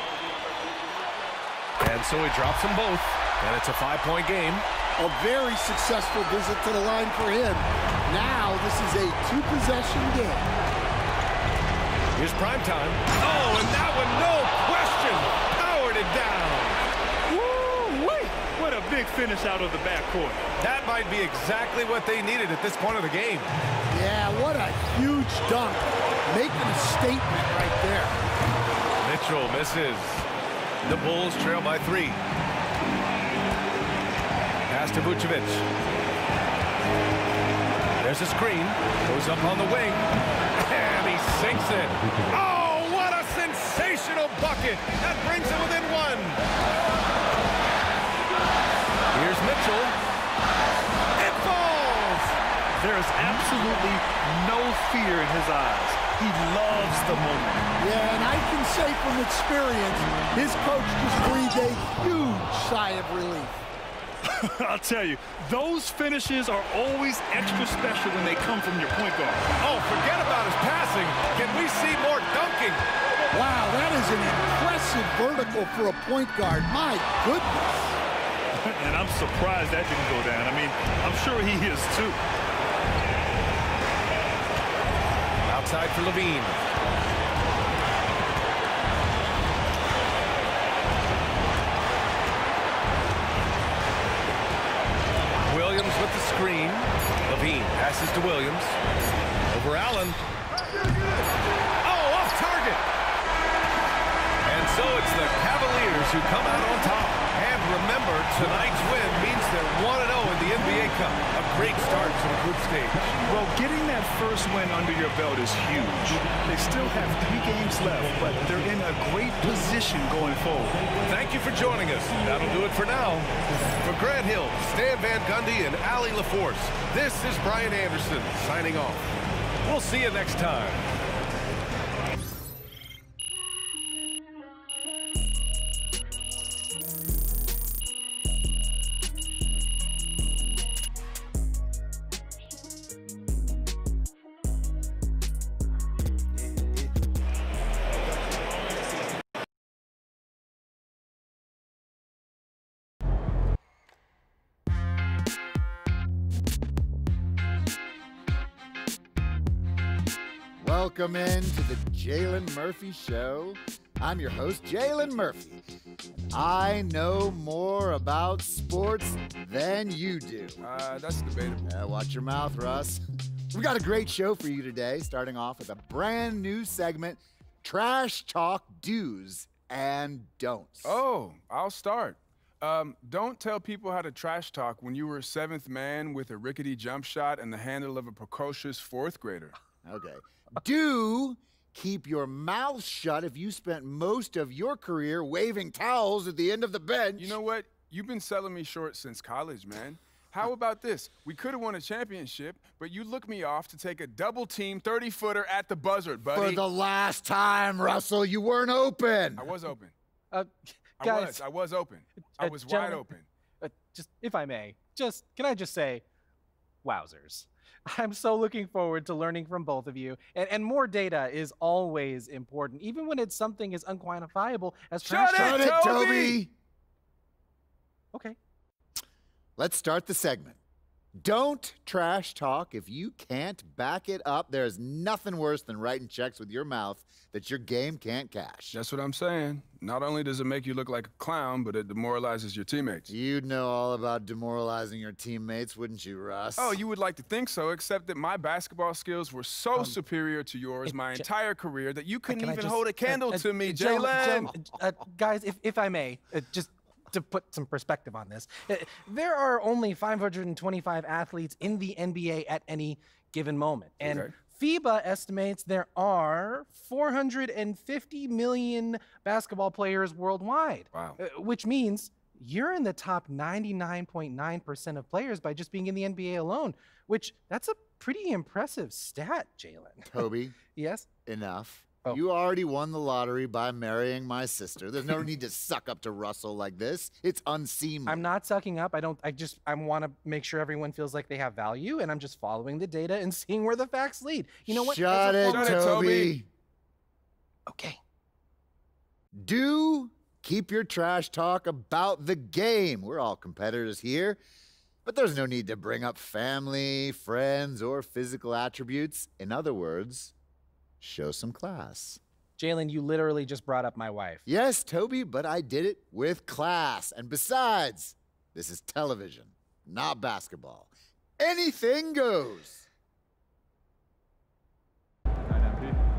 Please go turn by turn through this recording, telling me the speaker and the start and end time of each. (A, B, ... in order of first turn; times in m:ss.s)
0:01.8-0:04.6 A
0:05.0-0:10.4 B
0:12.1-0:16.8 A
0:17.3-0:20.4 C
0:20.6-0:23.5 A
0:23.9-0:28.2 B
0:29.0-0:30.2 A
0:30.8-0:32.2 A
0:34.7-0:35.6 A
0:38.0-0:40.1 A
0:40.6-0:46.4 A
0:49.1-0:50.0 A
0:51.2-0:52.4 A
0:52.8-0:57.7 C
0:57.8-1:03.5 B
1:04.2-1:09.5 C
1:09.6-1:12.9 A
1:13.3-1:18.0 B
1:18.6-1:22.2 C
1:25.4-1:26.6 A
1:35.4-1:38.8 A
1:39.5-1:40.2 A
1:41.8-1:42.8 A
1:44.4-1:53.2 A
1:53.2-2:00.8 C
2:01.0-2:09.1 A
2:09.6-2:10.8 A
2:40.6-2:45.6 D
2:46.3-2:50.6 D
2:50.6-2:51.6 E
2:51.6-2:53.0 D
2:53.5-3:01.0 D
3:00.8-3:09.5 E
3:09.8-3:17.4 D
3:17.2-3:26.6 E
3:26.3-3:29.5 D
3:29.4-3:29.9 E
3:31.0-3:33.2 E
3:31.0-3:31.4 F
3:32.4-3:33.0 F
3:33.6-3:36.0 F
3:36.8-3:45.5 F
3:45.0-3:46.4 E
3:45.3-3:46.5 D
3:49.6-3:50.6 D
3:51.2-3:58.8 D
3:58.7-4:03.1 E
4:03.1-4:06.8 D
4:06.6-4:14.5 E
4:12.3-4:40.0 F
4:24.0-4:24.3 E
4:30.9-4:31.2 E
4:40.1-4:40.6 D
4:40.6-4:41.1 F
4:41.2-4:48.3 D
4:48.1-4:55.7 F
4:54.7-4:56.5 D
4:55.3-4:56.4 E
4:57.7-4:57.9 F
4:59.3-5:04.4 D
5:05.0-5:10.3 D
5:11.0-5:12.2 D
5:12.6-5:14.4 F
5:14.4-5:22.8 D